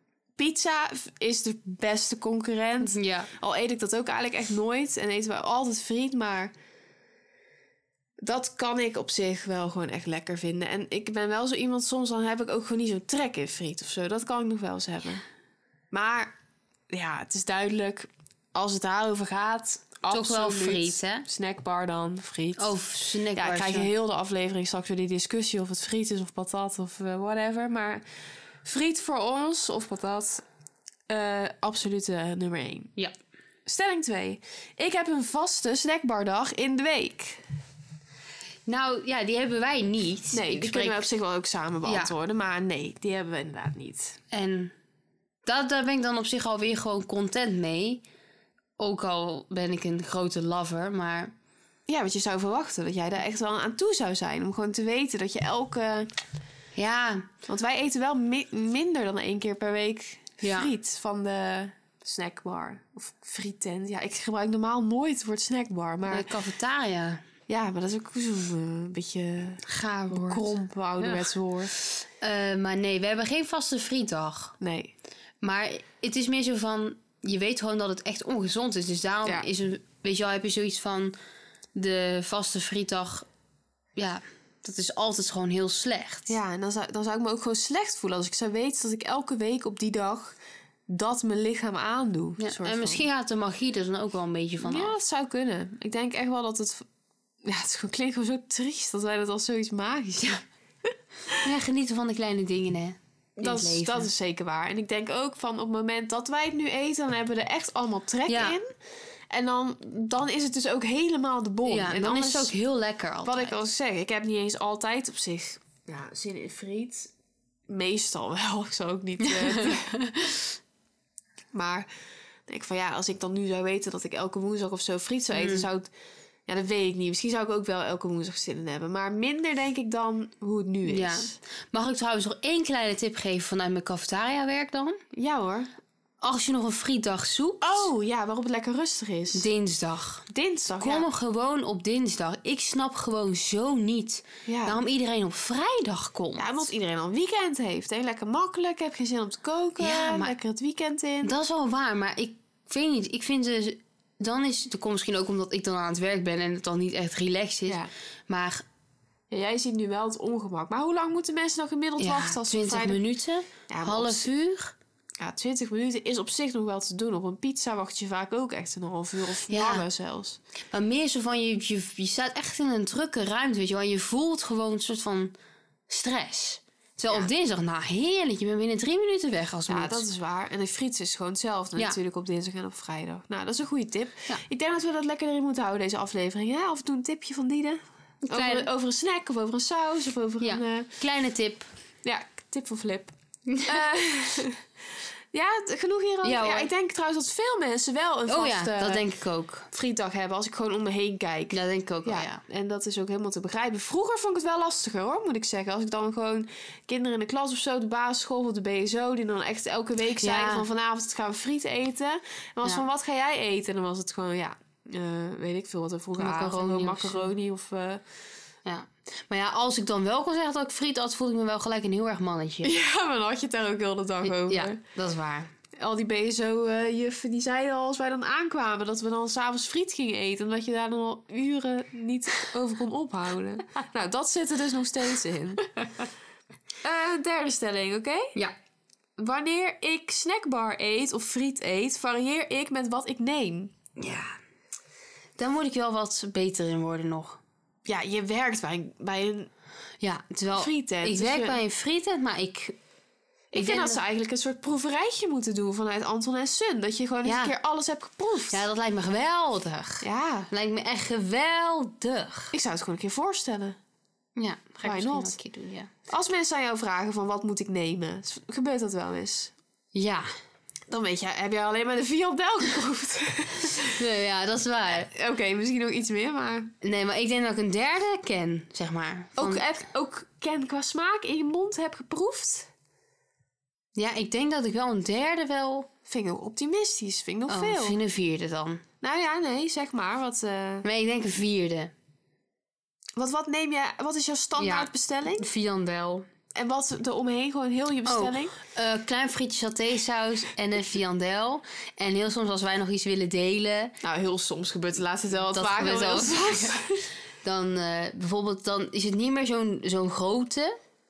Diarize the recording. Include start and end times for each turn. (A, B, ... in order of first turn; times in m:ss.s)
0:00.4-0:06.5 A
0:02.8-0:03.3 B
0:08.2-0:15.2 A
0:15.9-0:16.3 A
0:16.9-0:22.7 A
0:20.1-0:21.2 B
0:22.6-0:23.9 B
0:23.3-0:28.0 A
0:28.6-0:30.4 A
0:31.1-0:32.9 A
0:33.6-0:37.4 A
0:38.7-0:41.0 B
0:40.3-0:44.2 A
0:41.8-0:42.1 B
0:44.3-0:44.7 B
0:45.4-0:48.0 B
0:48.8-0:51.3 B
0:51.9-0:56.1 A
0:56.8-0:57.3 B
0:57.5-1:06.3 A
1:00.4-1:00.7 B
1:06.1-1:07.2 B
1:07.5-1:11.7 A
1:09.6-1:10.5 B
1:11.9-1:14.6 B
1:14.6-1:14.9 A
1:15.4-1:21.1 B
1:21.7-1:23.3 B
1:24.0-1:26.3 B
1:26.3-1:30.4 A
1:30.9-1:33.0 A
1:32.4-1:34.9 B
1:34.6-1:36.8 A
1:37.4-1:40.4 A
1:41.4-1:44.1 B
1:43.4-1:48.7 A
1:48.3-1:48.6 B
1:49.3-1:52.5 A
1:51.6-1:53.6 B
1:53.2-1:57.1 A
1:57.7-2:00.0 A
1:59.3-2:00.4 B
2:01.5-2:01.9 A
2:02.5-2:05.9 A
2:05.3-2:05.7 B
2:06.5-2:11.4 A
2:10.8-2:15.0 B
2:15.1-2:15.7 A
2:16.2-2:17.9 B
2:17.6-2:19.5 A
2:19.3-2:20.3 B
2:20.3-2:21.1 A
2:20.8-2:26.6 B
2:24.4-2:24.8 A
2:26.4-2:31.3 A
2:29.8-2:30.3 B
2:31.2-2:38.6 B
2:39.3-2:43.0 A
2:42.0-2:44.7 B
2:43.7-2:44.3 A
2:45.2-2:50.4 A
2:49.5-2:49.8 B
2:50.7-2:55.3 B
2:55.9-3:00.0 B
2:59.7-3:10.9 A
3:08.2-3:08.7 B
3:10.4-3:11.7 B
3:12.0-3:13.1 A
3:13.5-3:13.8 B
3:13.6-3:14.6 A
3:15.3-3:19.0 A
3:16.2-3:16.7 B
3:18.3-3:19.7 B
3:19.7-3:38.0 A
3:21.5-3:22.4 B
3:30.2-3:30.7 B
3:36.2-3:37.3 B
3:38.6-3:42.7 B
3:42.6-3:44.8 A
3:44.2-3:45.5 B
3:45.8-3:55.7 A
3:56.8-3:58.4 A
3:59.2-4:03.7 A
4:04.0-4:04.3 B
4:05.4-4:07.4 B
4:07.8-4:09.5 A
4:10.0-4:12.8 B
4:10.5-4:11.6 A
4:13.5-4:18.6 A
4:13.5-4:14.0 B
4:17.2-4:17.5 B
4:18.5-4:22.5 B
4:20.0-4:20.5 A
4:22.5-4:23.8 A
4:24.4-4:25.9 B
4:24.8-4:25.4 A
4:26.1-4:29.5 A
4:29.9-4:30.3 B
4:30.9-4:34.0 A
4:33.9-4:35.1 B
4:34.9-4:36.7 A
4:36.8-4:39.6 B
4:39.4-4:42.7 A
4:43.9-4:45.9 B
4:46.1-4:48.0 A
4:47.5-4:48.8 B
4:49.0-4:50.8 A
4:50.8-4:51.9 B
4:53.2-4:55.5 A
4:54.6-4:56.3 B
4:56.5-4:58.5 A
4:58.0-5:03.9 B
5:04.0-5:07.1 A
5:05.5-5:06.8 B
5:07.4-5:10.8 B